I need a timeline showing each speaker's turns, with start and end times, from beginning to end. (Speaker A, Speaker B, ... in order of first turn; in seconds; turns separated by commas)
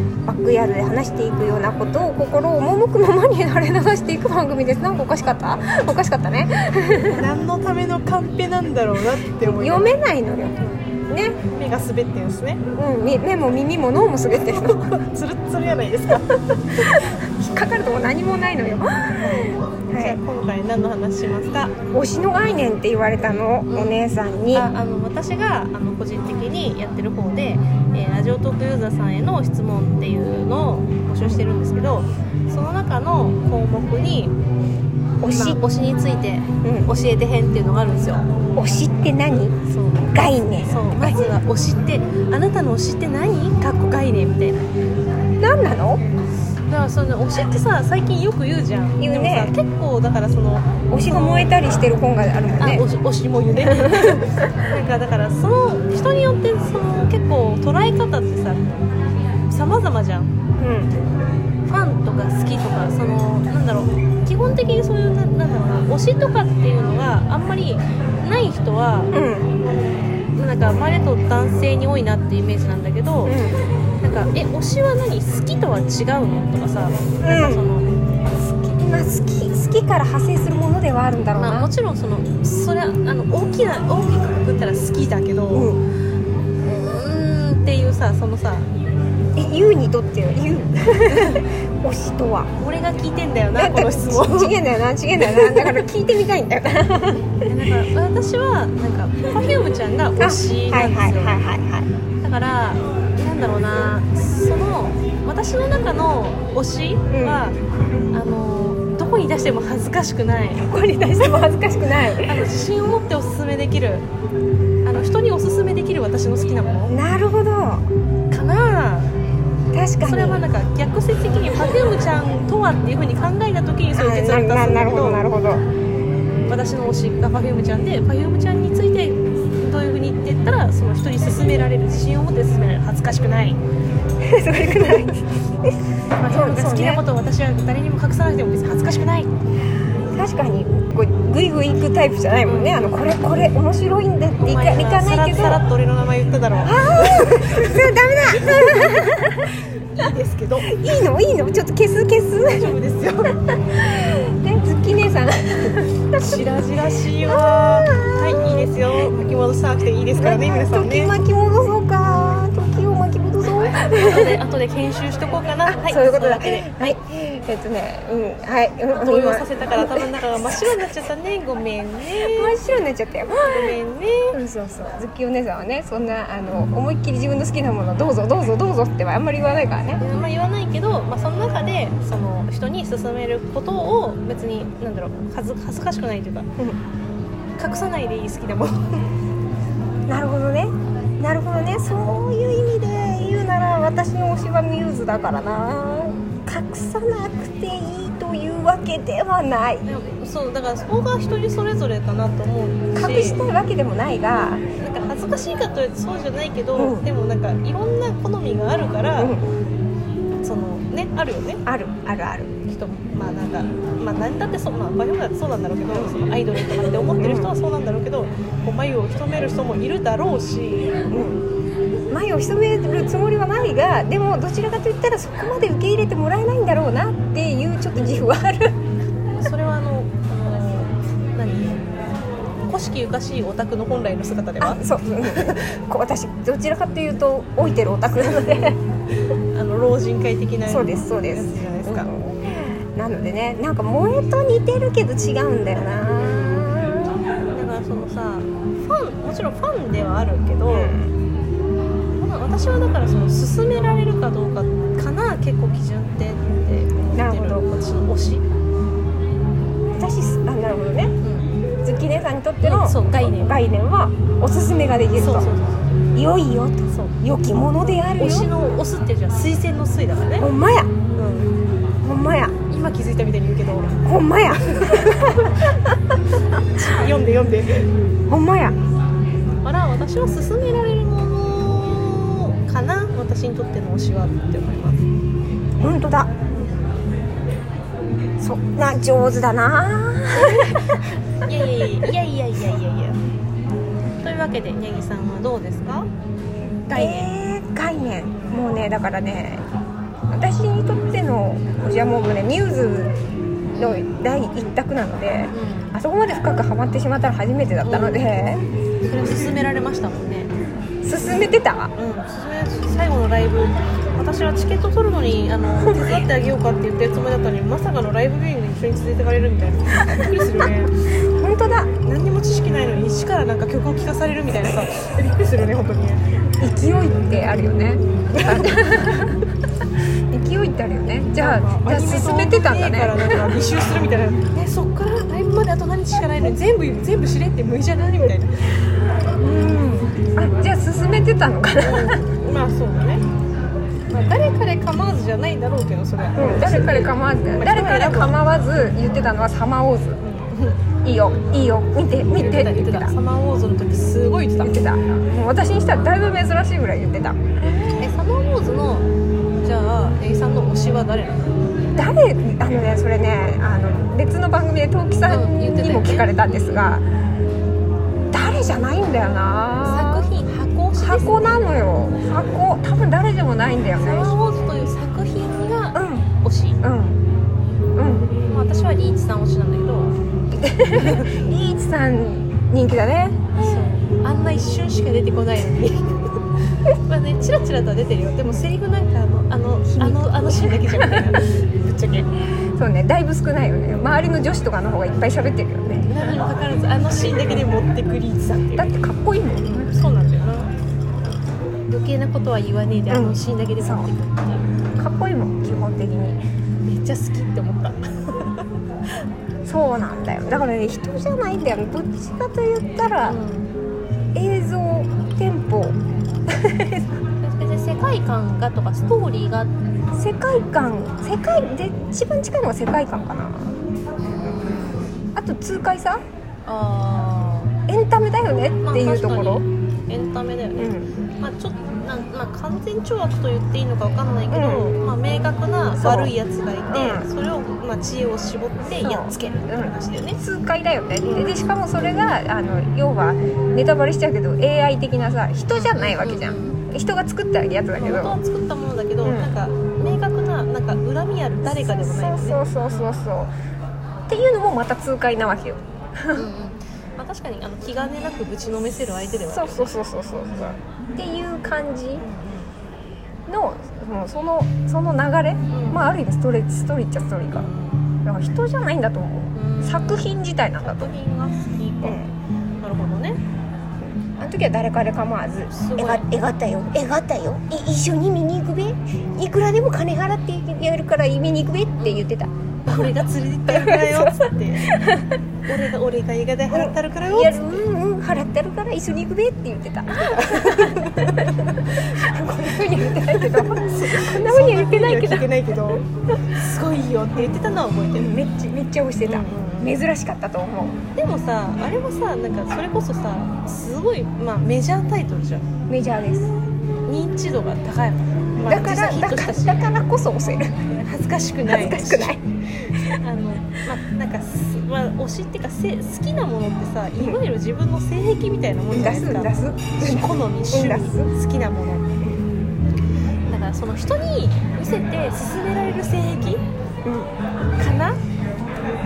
Speaker A: 0.3-7.2, Speaker B: 7.1-9.9, Speaker A: 9.3-10.6, Speaker B: 10.6-10.9, Speaker A: 11.1-11.4, Speaker B: 11.5-12.6, Speaker A: 12.7-15.0, Speaker B: 15.1-17.0, Speaker A: 16.1-20.2, Speaker B: 19.9-21.8, Speaker A: 21.9-24.7, Speaker B: 23.7-24.0, Speaker B: 24.5-34.3, Speaker A: 35.2-35.6, Speaker B: 35.2-38.2, Speaker A: 36.6-36.9, Speaker A: 38.6-39.6, Speaker B: 39.6-40.1, Speaker A: 40.1-41.3, Speaker B: 40.6-44.6, Speaker A: 45.4-46.0, Speaker B: 46.7-51.6, Speaker A: 49.0-49.5, Speaker A: 50.9-52.9, Speaker B: 52.6-58.9, Speaker A: 53.6-54.2, Speaker B: 59.5-60.3, Speaker A: 60.6-60.9, Speaker B: 61.7-69.1, Speaker A: 69.1-69.5, Speaker B: 70.4-73.3, Speaker A: 73.3-73.6, Speaker B: 74.0-77.9, Speaker A: 77.2-77.7, Speaker A: 78.4-81.7, Speaker B: 81.3-85.7, Speaker A: 85.5-85.8, Speaker B: 86.7-88.7, Speaker A: 89.4-92.5, Speaker B: 91.1-91.4, Speaker B: 92.6-94.6, Speaker A: 93.5-97.4, Speaker B: 95.2-95.8, Speaker B: 97.5-101.4, Speaker A: 100.2-101.9, Speaker B: 102.2-107.6, Speaker A: 107.1-107.4, Speaker B: 108.1-110.7, Speaker A: 110.6-112.5, Speaker B: 112.2-114.1, Speaker B: 114.8-116.9, Speaker A: 116.9-117.9, Speaker B: 118.3-119.1, Speaker A: 119.7-120.4, Speaker B: 120.0-125.2, Speaker A: 123.9-125.6, Speaker B: 126.5-133.6, Speaker A: 134.2-137.0, Speaker B: 134.6-135.1, Speaker B: 136.2-139.3, Speaker A: 140.1-145.6, Speaker B: 142.4-143.0, Speaker B: 144.4-147.7, Speaker A: 146.6-149.5, Speaker B: 148.3-148.9, Speaker B: 149.9-150.7, Speaker A: 150.7-152.8, Speaker B: 152.4-153.3, Speaker A: 153.7-159.3, Speaker B: 156.2-161.2, Speaker A: 160.2-164.4, Speaker B: 163.7-166.9, Speaker A: 165.7-170.9, Speaker B: 168.9-172.6, Speaker A: 172.2-173.8, Speaker B: 173.4-174.4, Speaker A: 174.3-180.0, Speaker B: 180.0-186.5, Speaker B: 187.6-188.9, Speaker A: 190.1-199.9, Speaker B: 199.8-203.4, Speaker A: 202.9-204.6, Speaker B: 204.8-209.3, Speaker A: 206.7-207.1, Speaker A: 209.2-209.5, Speaker B: 210.4-211.6, Speaker A: 211.7-212.5, Speaker B: 212.7-220.9, Speaker A: 217.2-217.6, Speaker A: 221.1-221.4, Speaker A: 222.1-228.8, Speaker B: 229.4-231.9, Speaker B: 232.7-235.6, Speaker A: 234.6-238.8, Speaker B: 239.5-242.1, Speaker A: 240.7-247.1, Speaker B: 247.5-250.9, Speaker A: 250.7-251.2, Speaker B: 252.2-258.4, Speaker A: 257.1-257.6, Speaker A: 259.9-261.1, Speaker B: 261.2-261.5, Speaker A: 261.8-265.5, Speaker B: 262.6-263.6, Speaker B: 264.8-266.0, Speaker A: 266.1-268.5, Speaker B: 267.8-270.5, Speaker A: 270.4-270.9, Speaker B: 271.1-271.5, Speaker A: 272.0-272.5, Speaker B: 272.7-274.0, Speaker A: 274.0-276.1, Speaker B: 274.9-275.5, Speaker B: 276.8-277.9, Speaker A: 278.3-278.8, Speaker B: 279.6-285.0, Speaker A: 285.8-286.3, Speaker A: 288.4-291.0, Speaker B: 290.3-290.9, Speaker B: 291.4-293.2, Speaker B: 294.2-296.1, Speaker A: 296.9-299.6, Speaker B: 296.9-297.3, Speaker A: 300.3-303.1, Speaker B: 303.7-304.0, Speaker A: 303.8-308.6, Speaker B: 305.5-305.9, Speaker B: 307.8-308.3, Speaker B: 309.0-310.5, Speaker A: 311.0-311.9, Speaker B: 311.9-321.1, Speaker A: 315.8-316.2, Speaker A: 321.2-321.9, Speaker B: 322.0-326.2, Speaker A: 326.6-329.4, Speaker B: 328.0-328.9, Speaker A: 330.3-333.4, Speaker B: 331.3-338.5, Speaker A: 339.4-342.4, Speaker B: 341.8-343.2, Speaker B: 344.1-348.4, Speaker A: 346.4-350.2, Speaker B: 350.2-350.8, Speaker A: 351.0-353.1, Speaker B: 352.3-354.8, Speaker A: 354.6-357.4, Speaker B: 357.6-359.1, Speaker B: 359.6-361.4, Speaker A: 361.9-367.1, Speaker B: 365.3-366.3, Speaker A: 368.3-370.3, Speaker B: 369.8-371.7, Speaker A: 371.0-374.4, Speaker B: 373.9-376.8, Speaker A: 375.9-376.3, Speaker A: 376.8-377.2, Speaker A: 377.9-378.3, Speaker B: 378.4-380.1, Speaker A: 380.5-383.4, Speaker B: 383.6-386.4, Speaker B: 387.1-392.3, Speaker A: 389.9-391.3, Speaker A: 392.8-396.4, Speaker B: 396.1-398.9, Speaker A: 398.8-399.9, Speaker B: 399.7-400.7, Speaker B: 401.9-404.6, Speaker A: 403.1-404.1, Speaker A: 405.0-406.4, Speaker B: 406.9-408.6, Speaker A: 409.6-413.4, Speaker B: 413.2-413.7, Speaker A: 414.3-416.0, Speaker A: 416.5-417.2, Speaker B: 417.4-419.7, Speaker A: 420.1-423.8, Speaker B: 424.5-425.0, Speaker A: 424.5-424.8, Speaker A: 425.3-426.2, Speaker B: 426.6-427.7, Speaker A: 427.9-429.6, Speaker B: 428.8-440.4, Speaker A: 430.8-431.1, Speaker A: 434.5-434.9, Speaker A: 435.9-436.3, Speaker A: 436.9-437.3, Speaker A: 439.0-448.4, Speaker B: 441.2-441.6, Speaker B: 445.7-446.8, Speaker B: 448.0-453.2, Speaker A: 449.2-449.5, Speaker A: 451.7-453.5, Speaker A: 454.3-456.5, Speaker B: 456.3-459.9, Speaker A: 459.4-462.2, Speaker B: 462.2-462.7, Speaker A: 463.5-467.7, Speaker B: 465.7-466.0, Speaker B: 467.5-468.0, Speaker A: 468.2-471.1, Speaker B: 469.5-472.2, Speaker A: 472.0-472.3, Speaker B: 472.8-473.4, Speaker A: 474.2-483.1, Speaker B: 475.7-476.3, Speaker B: 482.0-482.2, Speaker B: 482.9-484.9, Speaker A: 483.7-485.4, Speaker B: 485.6-487.8, Speaker A: 486.7-496.0, Speaker B: 490.2-492.2, Speaker B: 493.2-496.0, Speaker B: 496.5-498.3, Speaker A: 498.1-500.9, Speaker B: 499.2-499.9, Speaker B: 501.1-505.7, Speaker A: 505.9-506.6, Speaker B: 507.1-509.9, Speaker A: 508.6-510.8, Speaker B: 510.9-512.4, Speaker A: 511.6-513.2, Speaker B: 513.2-522.1, Speaker A: 518.9-521.3, Speaker A: 522.2-522.5, Speaker B: 523.5-526.6, Speaker A: 527.0-527.3, Speaker B: 527.8-528.2